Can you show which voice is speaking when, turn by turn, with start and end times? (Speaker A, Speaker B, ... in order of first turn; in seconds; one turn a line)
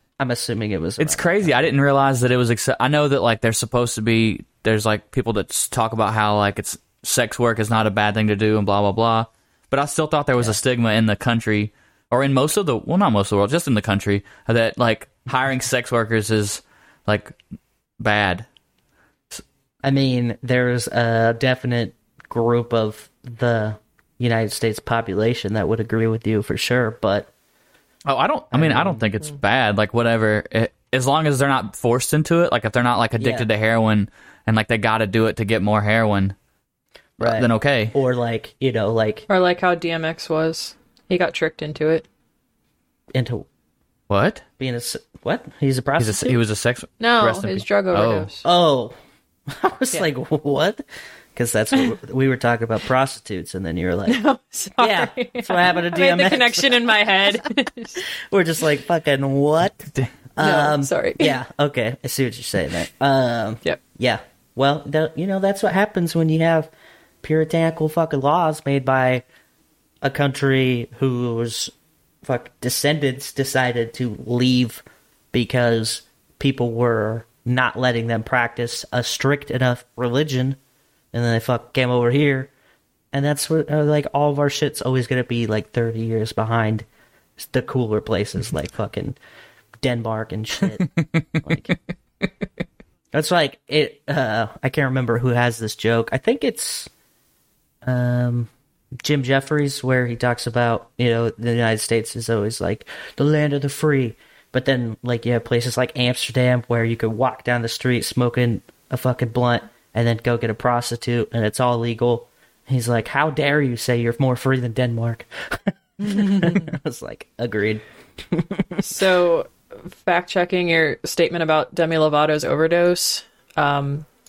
Speaker A: 0.2-1.7
Speaker B: 1.0-17.4
Speaker B: 18.0-18.4
Speaker A: 19.8-27.3
Speaker B: 28.1-36.4
Speaker A: 28.5-29.1
Speaker A: 33.2-33.5
Speaker B: 37.2-37.9
Speaker A: 37.2-39.3
Speaker C: 39.3-42.0
Speaker A: 43.1-43.5
Speaker B: 44.1-44.4
Speaker A: 44.6-46.4
Speaker B: 46.0-48.3
Speaker C: 47.0-48.4
Speaker A: 48.4-49.0
Speaker A: 49.5-50.8
Speaker A: 51.4-54.2
Speaker C: 54.1-58.0
Speaker A: 54.8-57.4
Speaker A: 58.0-66.7
Speaker C: 60.4-61.4
Speaker A: 67.2-69.2
Speaker A: 70.0-80.6
Speaker A: 81.1-82.5
Speaker A: 83.1-86.8
Speaker A: 87.4-89.2
Speaker A: 89.8-90.9
Speaker B: 90.8-91.7
Speaker A: 91.4-91.8
Speaker A: 93.1-96.9
Speaker A: 97.8-98.5
Speaker A: 99.0-118.8
Speaker C: 118.8-124.1